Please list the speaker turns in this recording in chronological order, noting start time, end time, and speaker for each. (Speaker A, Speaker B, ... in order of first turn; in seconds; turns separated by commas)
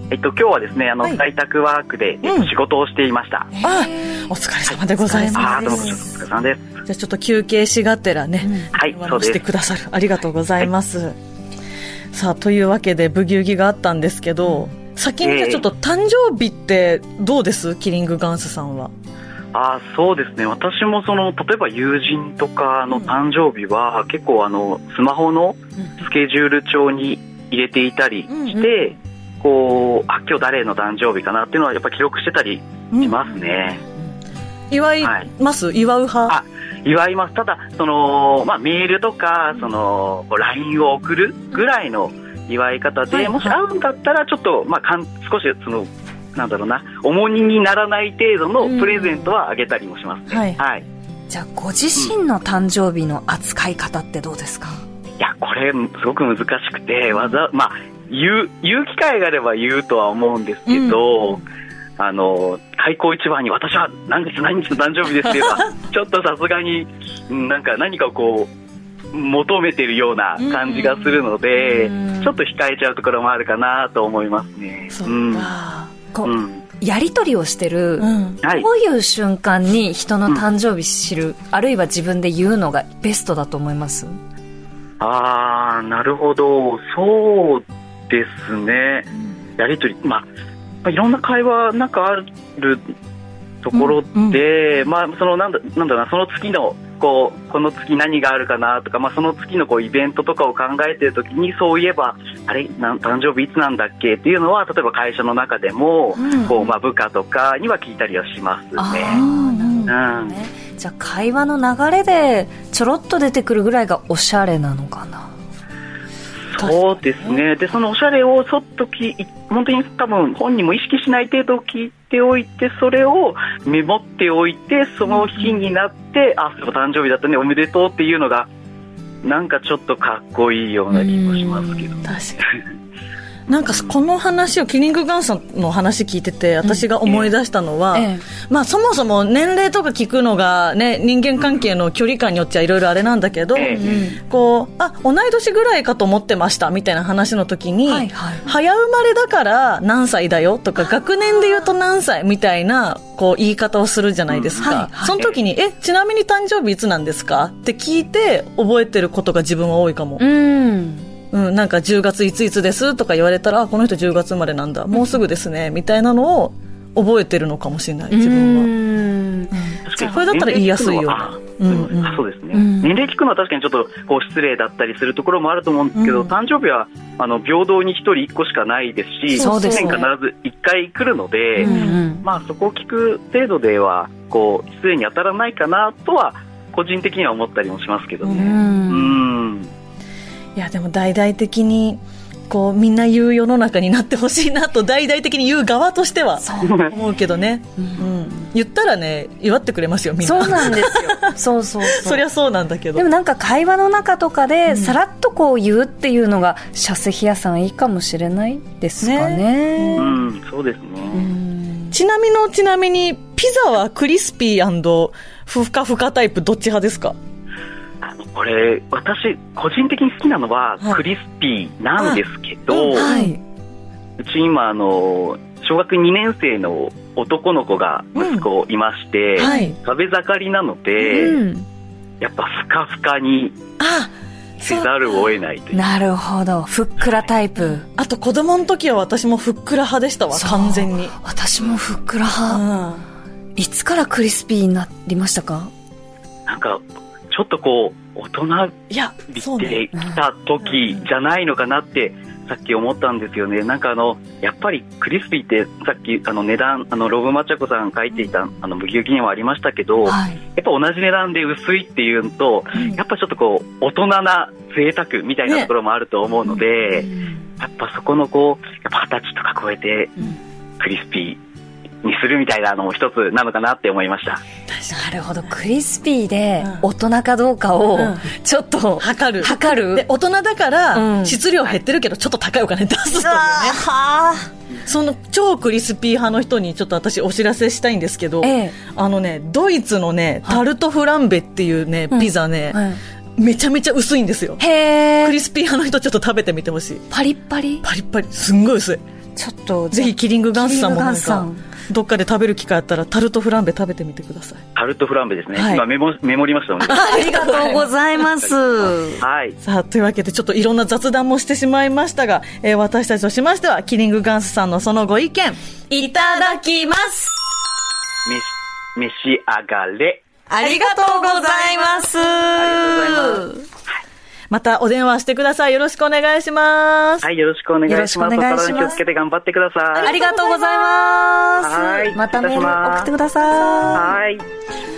Speaker A: 0.1-3.5, Speaker B: 2.2-2.5, Speaker C: 3.5-4.3, Speaker B: 3.6-6.0, Speaker C: 5.0-6.1, Speaker A: 5.3-6.7, Speaker B: 6.8-11.2, Speaker A: 8.7-9.4, Speaker B: 12.1-18.9, Speaker A: 15.2-15.6, Speaker A: 19.5-33.8, Speaker B: 28.3-28.6, Speaker B: 34.7-36.4, Speaker A: 35.0-35.3, Speaker A: 36.3-50.9, Speaker B: 43.1-43.5, Speaker B: 50.3-50.6, Speaker C: 51.3-54.8, Speaker A: 55.2-61.4, Speaker B: 60.7-61.0, Speaker A: 62.0-68.5, Speaker A: 69.1-75.5, Speaker B: 70.4-71.2, Speaker C: 71.6-72.3, Speaker B: 74.9-75.9, Speaker C: 76.1-84.1, Speaker A: 76.2-76.6, Speaker B: 78.0-78.4, Speaker A: 78.4-78.7, Speaker A: 85.0-90.3, Speaker A: 90.8-92.9, Speaker A: 93.6-109.2, Speaker B: 93.7-94.4, Speaker B: 106.2-106.6, Speaker C: 108.8-115.3, Speaker B: 109.1-109.9, Speaker A: 109.9-110.3, Speaker A: 116.5-128.5, Speaker B: 116.6-117.4, Speaker A: 129.2-132.5, Speaker C: 130.9-132.2, Speaker B: 132.0-132.4, Speaker B: 133.5-160.2, Speaker A: 137.1-137.3, Speaker C: 137.9-138.2, Speaker A: 141.4-141.6, Speaker A: 143.5-143.9, Speaker C: 143.6-144.2, Speaker C: 147.8-148.5, Speaker A: 154.3-155.3, Speaker C: 154.6-155.3, Speaker C: 160.2-161.1, Speaker B: 161.3-168.7, Speaker C: 168.1-169.7, Speaker B: 169.5-172.2, Speaker A: 169.9-189.7, Speaker C: 172.5-172.9, Speaker B: 176.0-176.3, Speaker C: 179.3-180.0, Speaker B: 179.3-180.0, Speaker C: 181.6-182.2, Speaker B: 181.6-182.0, Speaker B: 188.2-188.6, Speaker C: 188.3-189.2, Speaker B: 190.6-201.3, Speaker C: 196.4-196.9, Speaker A: 196.6-196.9, Speaker C: 197.8-198.5, Speaker C: 200.2-202.2, Speaker B: 201.9-203.1, Speaker C: 202.9-210.2, Speaker B: 204.7-205.0, Speaker B: 209.0-210.1, Speaker A: 209.9-211.3, Speaker C: 211.1-212.0, Speaker B: 211.9-217.2, Speaker A: 218.0-223.1, Speaker B: 222.0-223.4, Speaker C: 222.9-223.4, Speaker A: 224.2-231.4, Speaker B: 228.2-228.4, Speaker B: 229.4-229.8, Speaker C: 229.4-229.8, Speaker C: 231.0-231.7, Speaker A: 232.2-233.6, Speaker B: 233.8-234.1, Speaker A: 234.6-235.8, Speaker B: 234.6-234.9, Speaker C: 235.7-237.9, Speaker B: 237.9-241.1, Speaker C: 240.3-242.6, Speaker B: 242.5-243.1, Speaker C: 243.6-245.7, Speaker A: 246.5-270.3, Speaker B: 248.9-249.8, Speaker C: 260.0-260.4, Speaker C: 267.0-267.4, Speaker A: 270.8-271.4, Speaker A: 272.0-274.4, Speaker B: 274.7-275.0, Speaker C: 274.9-280.1, Speaker B: 277.9-278.2, Speaker B: 279.0-283.8, Speaker C: 280.9-281.4, Speaker C: 283.1-284.5, Speaker B: 284.9-292.8, Speaker C: 288.4-288.8, Speaker C: 292.1-293.0, Speaker B: 293.4-294.6, Speaker C: 294.6-295.4, Speaker B: 295.2-297.1, Speaker C: 297.1-297.8, Speaker B: 297.8-299.0, Speaker C: 299.4-301.6, Speaker B: 299.9-304.6, Speaker A: 304.8-307.8, Speaker B: 305.6-305.8, Speaker C: 306.8-309.2, Speaker B: 306.8-307.9, Speaker A: 309.2-309.6, Speaker B: 309.6-315.6, Speaker C: 315.9-317.4, Speaker A: 318.2-320.2, Speaker C: 320.5-323.6, Speaker B: 320.6-322.0, Speaker A: 322.5-323.5, Speaker B: 324.5-327.2, Speaker A: 327.2-330.2, Speaker C: 327.9-329.0, Speaker B: 329.9-330.9, Speaker C: 330.0-334.1, Speaker A: 331.6-333.1, Speaker A: 333.9-334.4